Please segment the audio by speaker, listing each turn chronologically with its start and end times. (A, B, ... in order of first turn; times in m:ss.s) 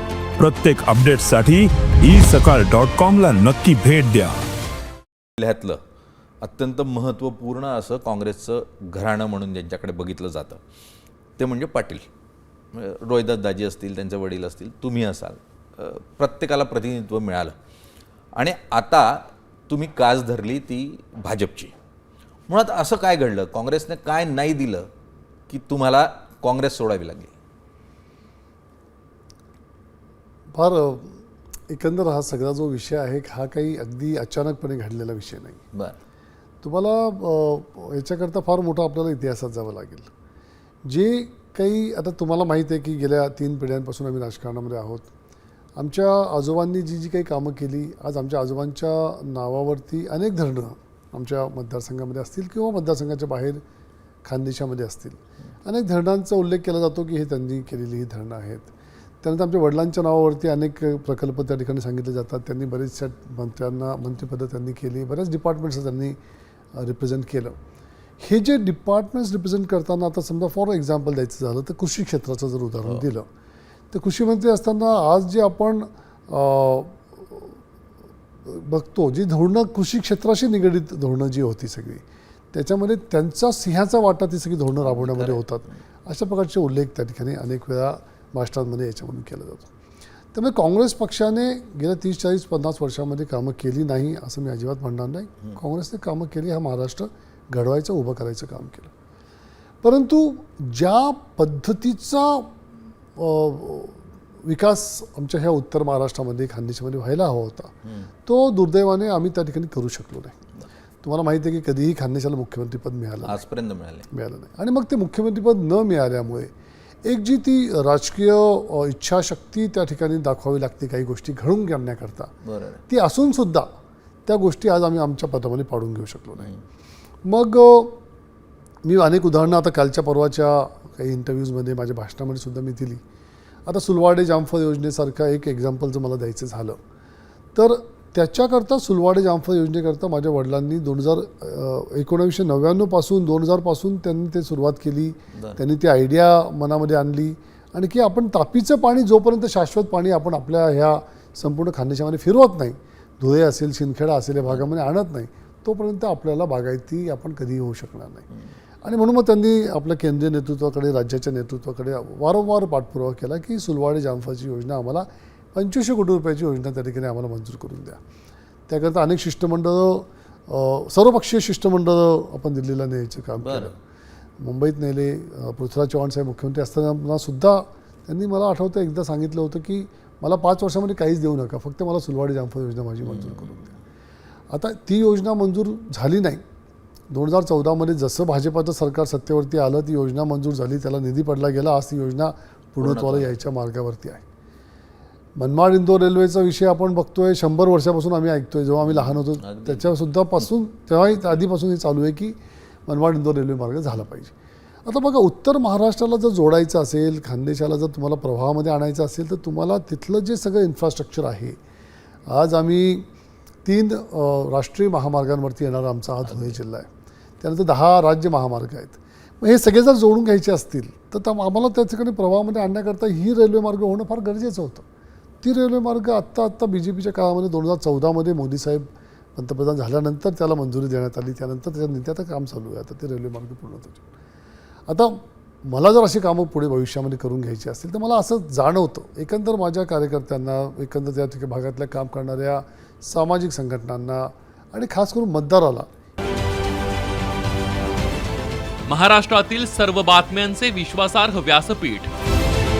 0:00.4-0:04.4 A
0:05.4-0:05.8 B
0:06.4-0:10.6 B
0:11.4-0:12.0 B
0:12.7-0:17.5 B
0:18.3-0:21.7 B
0:22.5-0:24.9 B
0:25.5-0:27.3 B
0:30.5-0:35.6 C
0:36.6-0:40.1 C
0:40.8-0:45.1 C
0:45.8-0:53.6 C
0:54.2-1:06.2 C
1:06.7-1:07.6 C
1:08.2-1:13.3 C
1:13.9-1:17.4 C
1:18.4-1:29.7 C
1:24.8-1:25.7 B
1:30.3-1:38.9 C
1:39.8-1:42.6 C
1:43.2-1:47.7 C
1:48.2-1:50.4 C
1:51.0-1:53.4 C
1:53.2-1:54.1 B
1:54.1-1:56.5 C
1:57.0-2:02.3 C
2:02.4-2:02.8 B
2:02.9-2:03.7 C
2:04.2-2:06.5 C
2:07.2-2:08.0 C
2:08.8-2:13.0 C
2:13.6-2:16.8 C
2:17.5-2:38.3 C
2:25.3-2:25.6 B
2:38.8-2:48.0 C
2:48.7-2:53.7 C
2:53.4-2:53.7 B
2:54.4-3:03.7 C
3:03.0-3:03.7 B
3:04.5-3:06.4 C
3:07.1-3:14.2 C
3:12.8-3:13.3 B
3:15.4-3:24.3 C
3:18.8-3:19.9 B
3:24.8-3:31.6 C
3:32.3-3:33.1 C
3:33.6-3:36.9 C
3:36.2-3:36.6 B
3:37.4-3:44.8 C
3:45.4-3:54.0 C
3:54.9-4:05.9 C
4:08.9-4:12.1 D